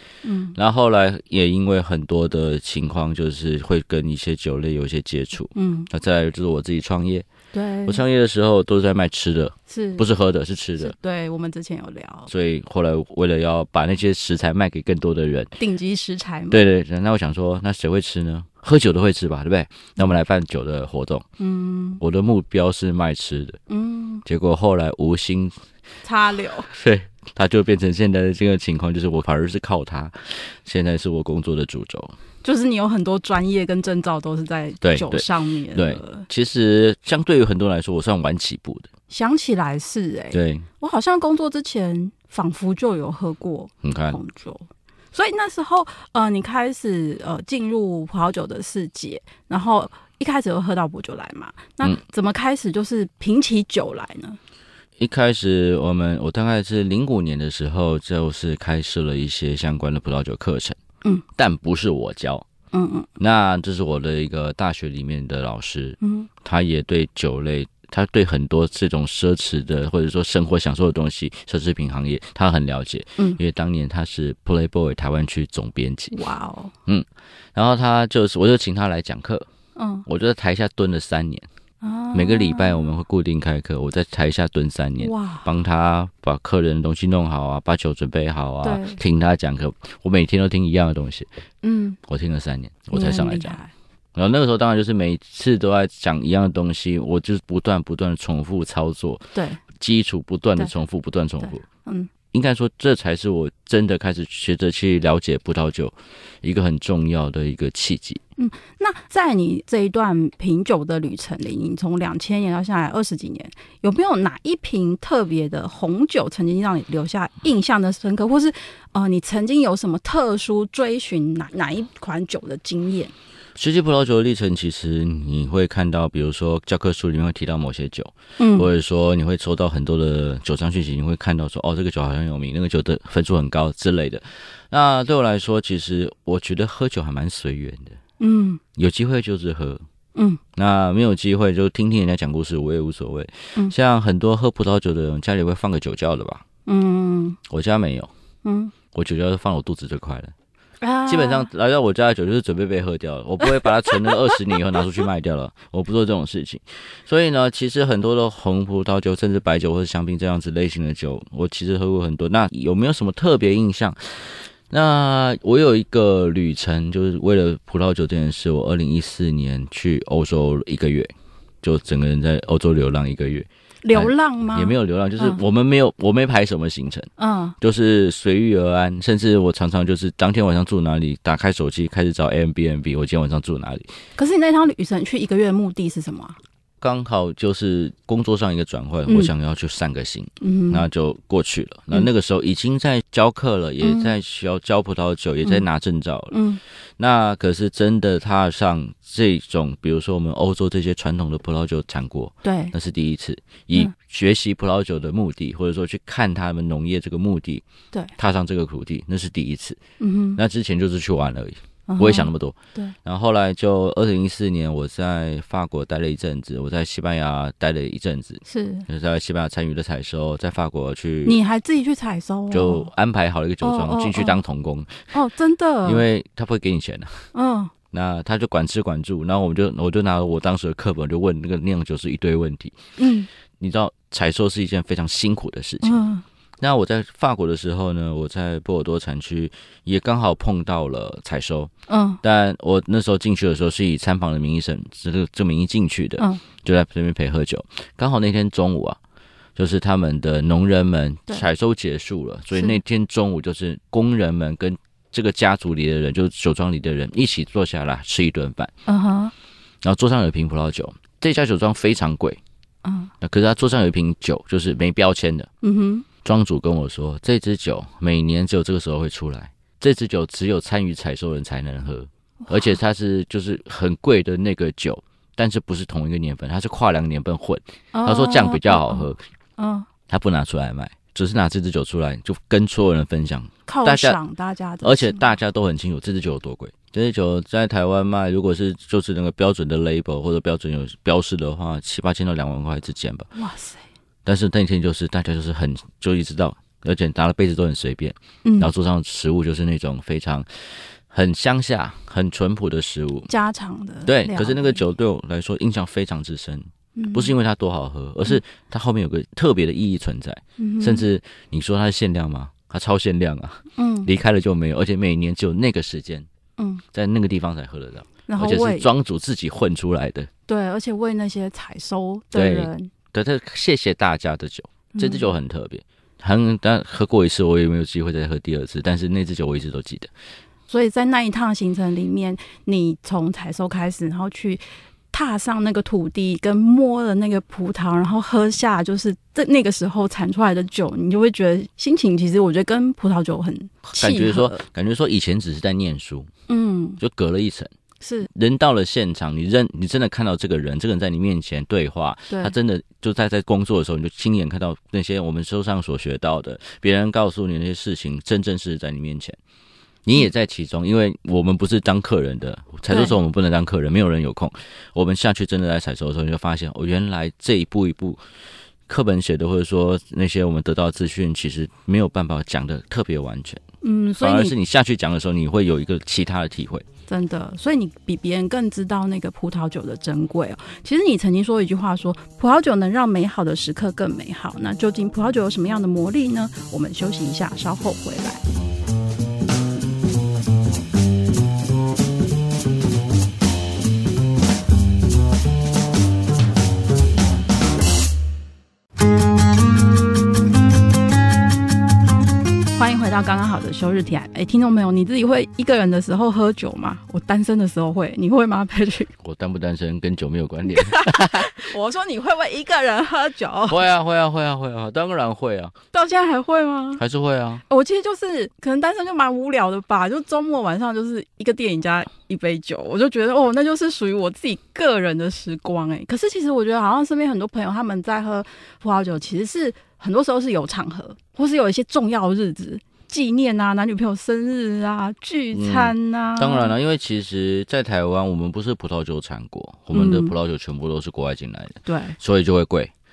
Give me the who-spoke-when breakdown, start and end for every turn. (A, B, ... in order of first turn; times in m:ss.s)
0:00.2-0:00.6 A
0:00.6-0:07.3 B
0:05.6-0:05.9 A
0:07.5-0:08.0 A
0:07.9-0:11.0 B
0:09.7-0:10.1 A
0:10.8-0:12.3 A
0:12.3-0:15.5 B
0:15.6-0:16.6 A
0:16.5-0:21.2 B
0:21.4-0:22.0 A
0:22.0-0:23.6 B
0:23.7-0:24.2 A
0:24.2-0:25.6 B
0:26.0-0:26.7 A
0:26.7-0:32.2 B
0:32.4-0:36.3 A
0:34.8-0:38.9 B
0:39.1-0:54.4 A
0:40.3-0:40.7 B
0:43.8-0:44.2 B
0:55.0-1:00.8 B
1:01.4-1:02.4 B
1:02.7-1:03.1 A
1:03.2-1:16.2 B
1:06.0-1:06.3 A
1:16.1-1:16.7 A
1:16.9-1:19.5 B
1:19.8-1:20.0 A
1:20.1-1:21.5 B
1:21.8-1:22.9 A
1:22.1-1:31.3 B
1:25.0-1:25.5 A
1:28.6-1:29.0 A
1:31.6-1:32.0 A
1:32.1-1:33.6 B
1:32.9-1:33.7 A
1:34.2-1:41.6 B
1:39.4-1:39.6 A
1:41.4-1:42.1 A
1:42.3-1:48.2 B
1:48.4-2:03.1 A
2:03.6-2:18.0 B
2:08.4-2:08.7 A
2:18.2-2:18.6 A
2:18.8-2:19.8 B
2:20.2-2:20.4 A
2:20.6-2:26.4 B
2:26.7-2:27.4 A
2:27.5-2:28.1 B
2:28.4-2:28.7 A
2:28.9-2:30.3 B
2:30.8-2:31.5 A
2:31.1-2:51.1 B
2:51.6-3:03.9 B
2:53.8-2:55.4 A
2:57.2-2:57.6 A
3:04.2-3:06.4 A
3:06.8-3:16.4 B
3:10.4-3:10.8 A
3:13.8-3:14.1 A
3:16.3-3:16.6 A
3:17.0-3:27.6 B
3:22.4-3:22.7 A
3:28.2-3:29.8 B
3:30.0-3:30.4 A
3:30.4-3:41.4 B
3:31.9-3:33.0 A
3:38.4-3:38.9 A
3:41.2-3:42.9 A
3:42.5-3:45.1 B
3:43.6-3:44.4 A
3:45.1-3:46.0 A
3:45.8-3:47.3 B
3:47.3-3:47.7 A
3:47.9-3:52.8 B
3:53.0-3:53.3 A
3:53.6-3:56.0 B
3:55.8-3:56.2 A
3:56.6-4:01.7 B
4:01.9-4:02.2 A
4:02.2-4:09.0 B
4:09.6-4:18.7 B
4:18.9-4:19.3 A
4:19.8-4:22.4 B
4:22.8-4:23.1 A
4:23.2-4:25.5 B
4:25.6-4:26.1 A
4:26.2-4:39.2 B
4:32.4-4:32.8 A
4:37.9-4:39.9 A
4:40.1-4:44.2 B
4:43.7-4:45.3 A
4:44.8-4:53.3 B
4:53.4-4:53.8 A
4:54.2-5:03.3 B
4:58.4-4:58.7 A
5:03.3-5:04.8 A
5:04.1-5:16.3 B
5:07.0-5:07.3 A
5:10.6-5:11.1 A
5:13.8-5:14.1 A
5:16.6-5:16.8 A
5:16.9-5:20.3 B
5:18.3-5:18.9 A
5:20.5-5:22.9 A
5:22.3-5:30.1 B
5:24.9-5:25.3 A
5:30.7-5:44.6 A
5:44.0-5:46.3 B
5:46.5-5:47.0 A
5:47.0-5:47.7 B
5:48.0-5:48.3 A
5:48.3-5:59.4 B
6:00.0-6:08.2 B
6:02.9-6:03.2 A
6:08.9-6:13.6 B
6:13.8-6:14.5 A
6:14.2-6:16.9 B
6:17.1-6:28.4 A
6:42.8-6:49.1 A
6:49.2-6:51.6 B
6:50.7-6:53.9 A
6:53.7-6:55.8 B
6:55.9-6:57.0 A
6:57.0-6:57.6 B
6:57.7-7:16.7 A
7:15.5-7:22.9 B
7:19.9-7:20.3 A
7:21.9-7:22.2 A